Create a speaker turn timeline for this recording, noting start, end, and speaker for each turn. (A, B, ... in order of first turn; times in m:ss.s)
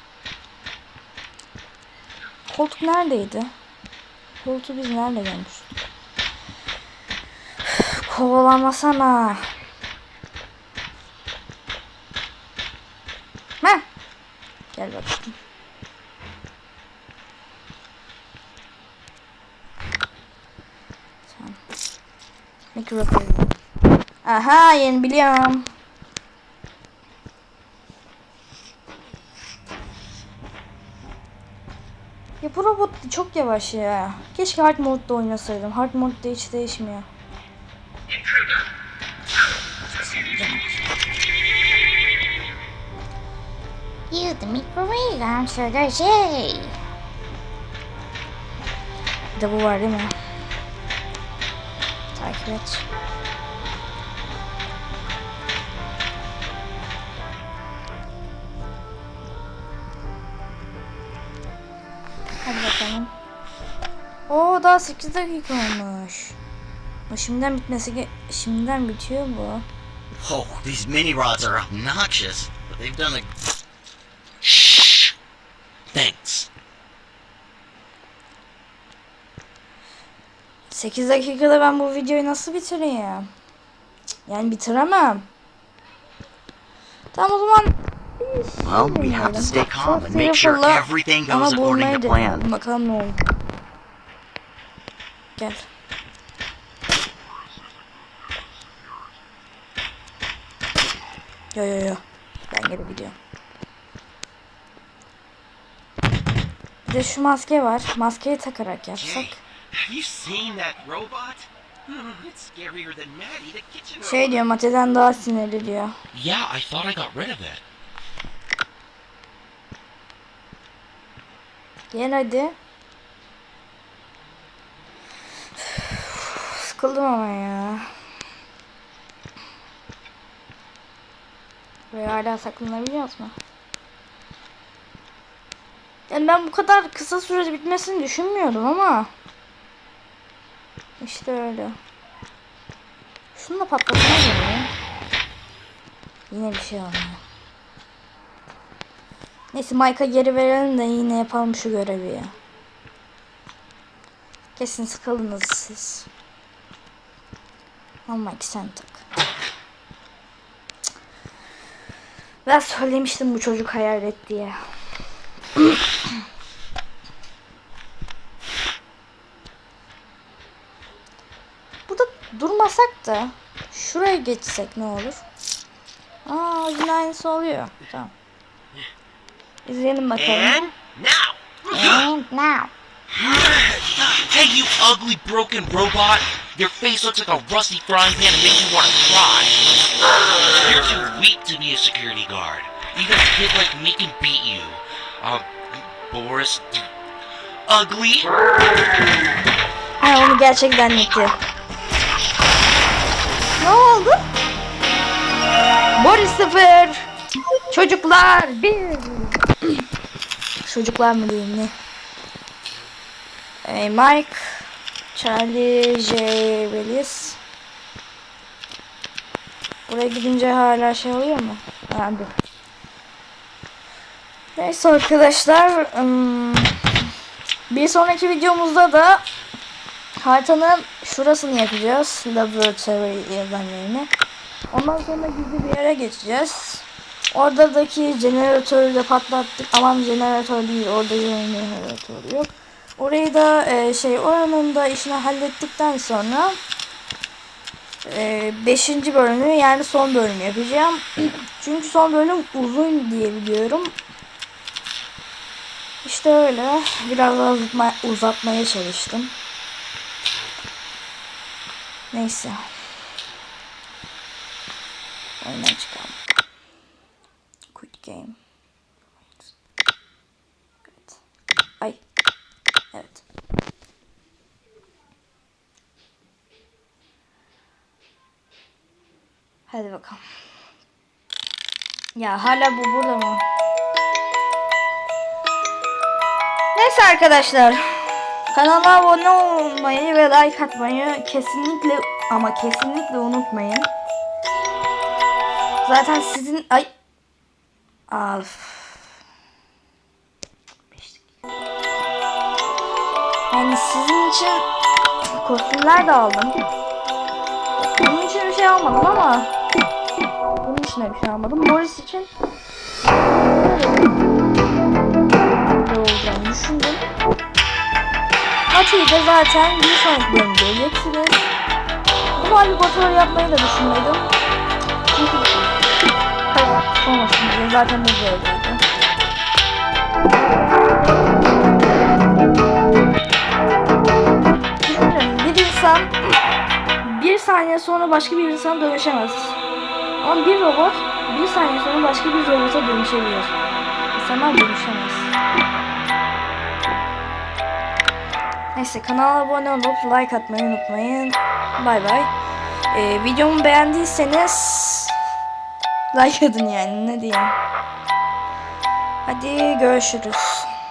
0:02.5-0:03.5 A
0:04.4-0:05.8 A
0:07.6-0:09.5 A
0:14.7-0:15.3 A
0:21.3-0:21.6 A
0:22.7-0:23.5 A
0:24.2-0:25.7 A
0:32.4-0:37.0 A
0:39.9-0:40.9 A
0:44.1-0:46.7 A
0:49.3-0:50.1 A
0:52.1-0:52.9 A
1:02.4-1:03.1 A
1:04.3-1:06.4 A
1:07.1-1:09.6 A
1:10.2-1:13.3 B
1:14.4-1:15.1 C
1:15.9-1:16.5 C
1:20.7-1:23.3 A
1:24.3-1:25.3 A
1:27.1-1:33.2 A
1:28.6-1:32.4 B
1:35.4-1:35.6 A
1:41.5-1:43.2 A
1:46.8-1:49.4 A
1:49.0-1:54.4 D
1:54.0-1:55.9 A
1:56.1-1:57.6 C
2:01.9-2:02.6 A
2:05.6-2:07.9 A
2:11.9-2:13.3 A
2:16.1-2:19.1 A
2:21.0-2:21.8 A
2:23.3-2:24.7 A
2:26.3-2:27.2 A
2:29.5-2:32.3 A
2:34.6-2:36.1 A
2:38.1-2:39.0 A
2:42.4-2:44.6 A
2:45.6-2:46.1 A
2:51.9-2:55.2 A
2:56.2-2:58.1 A
2:59.6-3:00.6 A
3:00.2-3:02.1 D
3:01.7-3:02.7 A
3:03.3-3:09.6 C
3:10.6-3:16.9 C
3:17.7-3:18.3 C
3:20.0-3:21.4 A
3:23.6-3:24.2 A
3:25.9-3:27.1 A
3:27.7-3:29.4 A
3:30.6-3:31.7 A
3:33.6-3:37.4 A
3:39.9-3:42.3 A
3:44.6-3:46.7 A
3:47.7-3:49.2 A
3:50.2-3:54.1 A
3:54.7-4:06.6 A
4:08.0-4:13.9 A
4:16.0-4:19.3 A
4:22.1-4:22.7 A
4:25.4-4:26.4 A
4:27.7-4:28.4 A
4:30.8-4:31.2 A
4:32.9-4:33.2 A
4:39.7-4:40.2 A
4:42.1-4:43.4 A
4:46.7-4:53.9 A
4:55.8-4:56.9 A
4:58.1-4:59.0 A
5:00.9-5:01.3 A
5:03.5-5:04.6 A
5:05.4-5:06.6 A
5:07.8-5:09.5 A
5:10.6-5:12.3 A
5:13.0-5:14.2 A
5:15.5-5:17.0 A
5:18.7-5:21.5 A
5:22.3-5:24.2 A
5:25.1-5:25.5 A
5:26.5-5:28.8 A
5:30.8-5:31.4 A
5:34.8-5:36.1 A
5:37.0-5:39.6 A
5:40.2-5:43.5 A
5:44.1-5:45.3 A
5:48.7-5:52.3 A
5:52.9-5:55.1 A
5:56.1-5:57.5 A
5:59.2-6:00.7 A